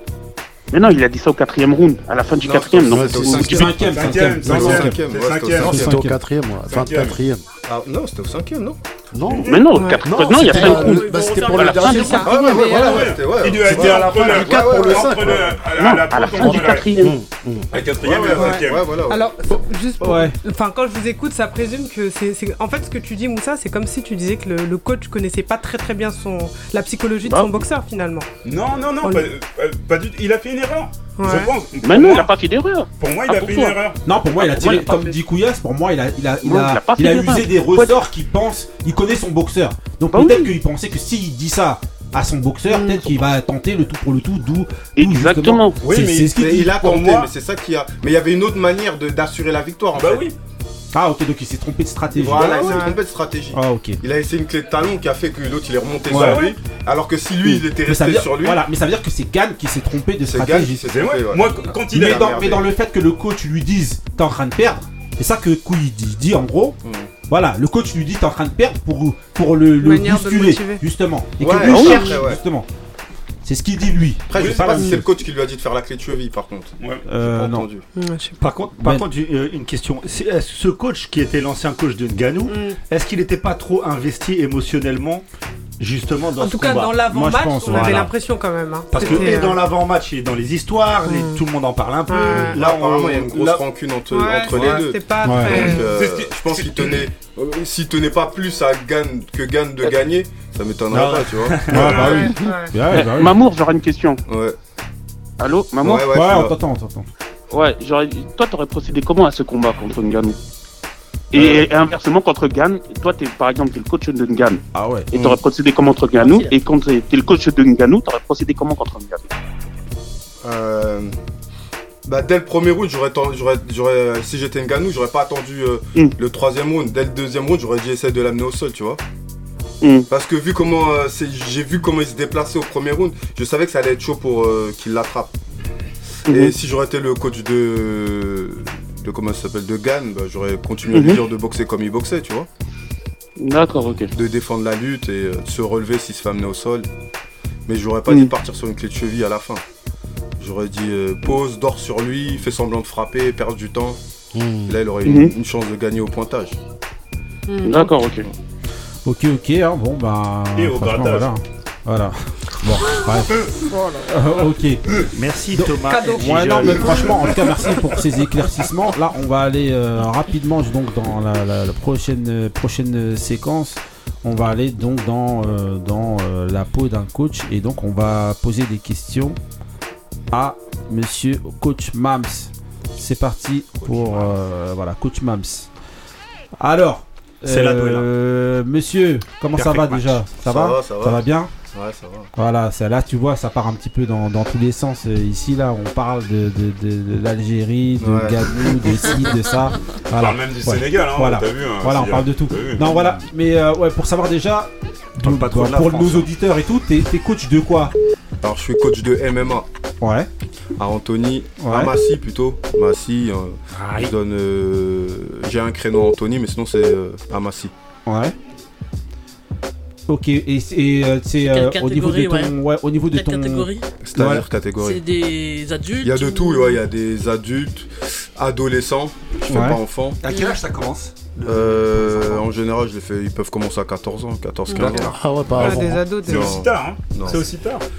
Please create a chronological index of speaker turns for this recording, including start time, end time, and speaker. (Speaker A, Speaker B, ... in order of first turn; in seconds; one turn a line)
Speaker A: 0.7-3.6
Speaker B: 2.4-5.7
Speaker C: 2.9-4.1
Speaker D: 3.2-5.0
Speaker E: 3.5-5.9
Speaker C: 5.6-7.4
Speaker D: 5.6-6.2
Speaker E: 6.7-7.2
Speaker B: 7.7-8.8
Speaker C: 9.1-12.6
Speaker E: 9.3-9.6
Speaker A: 9.4-12.2
Speaker F: 9.7-10.1
Speaker G: 10.2-12.4
Speaker F: 11.9-13.1
Speaker B: 12.2-15.6
Speaker E: 12.6-16.9
Speaker F: 13.8-15.2
Speaker C: 13.8-15.4
Speaker A: 15.7-17.1
Speaker C: 16.4-17.6
Speaker E: 17.7-18.9
Speaker B: 18.0-19.6
Speaker F: 18.3-28.3
Speaker D: 20.0-20.3
Speaker A: 27.2-27.5
Speaker E: 28.4-32.3
Speaker F: 31.2-31.5
Speaker A: 31.8-33.8
Speaker E: 33.0-34.0
Speaker D: 34.0-47.0
Speaker A: 34.4-35.1
Speaker A: 36.4-38.0
Speaker A: 40.1-40.5
Speaker A: 45.0-45.8
Speaker E: 45.8-47.3
Speaker B: 45.9-50.3
Speaker E: 50.0-50.3
Speaker D: 50.9-52.9
Speaker B: 52.1-58.6
Speaker F: 52.4-53.0
Speaker D: 53.5-54.0
Speaker D: 56.1-56.5
Speaker E: 56.1-56.4
Speaker F: 56.2-56.5
Speaker D: 57.4-60.8
Speaker B: 60.2-62.6
Speaker E: 60.9-62.6
Speaker D: 61.9-66.8
Speaker B: 66.8-67.1
Speaker D: 67.3-72.7
Speaker F: 69.8-70.8
Speaker B: 71.4-72.4
Speaker A: 71.7-72.1
Speaker F: 71.8-72.1
Speaker D: 73.4-75.0
Speaker B: 74.3-77.8
Speaker E: 74.3-74.8
Speaker E: 76.8-77.0
Speaker D: 77.0-77.7
Speaker F: 78.0-78.4
Speaker H: 78.4-85.2
Speaker D: 78.8-79.0
Speaker F: 82.5-82.8
Speaker H: 85.8-87.1
Speaker F: 86.4-89.7
Speaker D: 87.1-88.1
Speaker H: 87.7-88.0
Speaker H: 88.9-93.6
Speaker B: 89.0-89.4
Speaker F: 91.0-91.4
Speaker F: 92.1-92.6
Speaker B: 92.3-102.3
Speaker F: 94.1-95.8
Speaker D: 95.2-95.8
Speaker E: 95.7-97.0
Speaker H: 100.9-101.2
Speaker D: 101.6-103.3
Speaker F: 101.9-102.7
Speaker A: 103.0-104.2
Speaker B: 104.3-104.6
Speaker A: 105.4-106.1
Speaker B: 105.8-106.5
Speaker D: 106.1-107.1
Speaker A: 107.5-110.4
Speaker A: 111.3-119.2
Speaker B: 111.3-111.7
Speaker D: 114.7-115.1
Speaker G: 116.2-116.5
Speaker B: 120.4-121.2
Speaker B: 122.1-129.0
Speaker A: 129.8-130.1
Speaker B: 130.1-135.3
Speaker B: 136.3-142.5
Speaker A: 136.3-136.5
Speaker A: 140.9-141.2
Speaker A: 143.4-144.1
Speaker B: 144.1-146.9
Speaker B: 147.7-149.6
Speaker B: 150.4-154.0
Speaker C: 154.3-154.8
Speaker B: 154.7-156.6
Speaker A: 155.0-155.3
Speaker F: 157.5-158.0
Speaker A: 157.6-158.2
Speaker D: 159.0-163.5
Speaker E: 160.6-161.3
Speaker F: 163.7-164.0
Speaker D: 164.0-165.0
Speaker H: 165.1-167.7
Speaker D: 165.5-179.4
Speaker F: 165.9-167.2
Speaker D: 180.3-185.7
Speaker D: 186.6-191.5
Speaker H: 187.4-188.1
Speaker H: 189.5-190.3
Speaker B: 190.4-192.3
Speaker D: 192.3-207.9
Speaker B: 198.0-199.1
Speaker E: 200.1-203.0
Speaker B: 202.8-203.1
Speaker H: 205.2-206.3
Speaker B: 208.4-209.7
Speaker D: 210.0-210.3
Speaker B: 210.8-217.7
Speaker D: 211.6-211.9
Speaker H: 213.7-214.1
Speaker D: 218.1-218.3
Speaker D: 220.1-224.4
Speaker G: 221.4-222.5
Speaker G: 223.1-223.9
Speaker B: 224.0-225.1
Speaker G: 224.8-226.8
Speaker B: 226.0-230.2
Speaker D: 229.5-229.8
Speaker H: 230.2-232.4
Speaker G: 230.3-230.6
Speaker B: 231.4-235.7
Speaker F: 234.7-235.1
Speaker C: 234.9-236.0
Speaker E: 235.5-237.8
Speaker F: 235.6-236.6
Speaker B: 236.2-237.5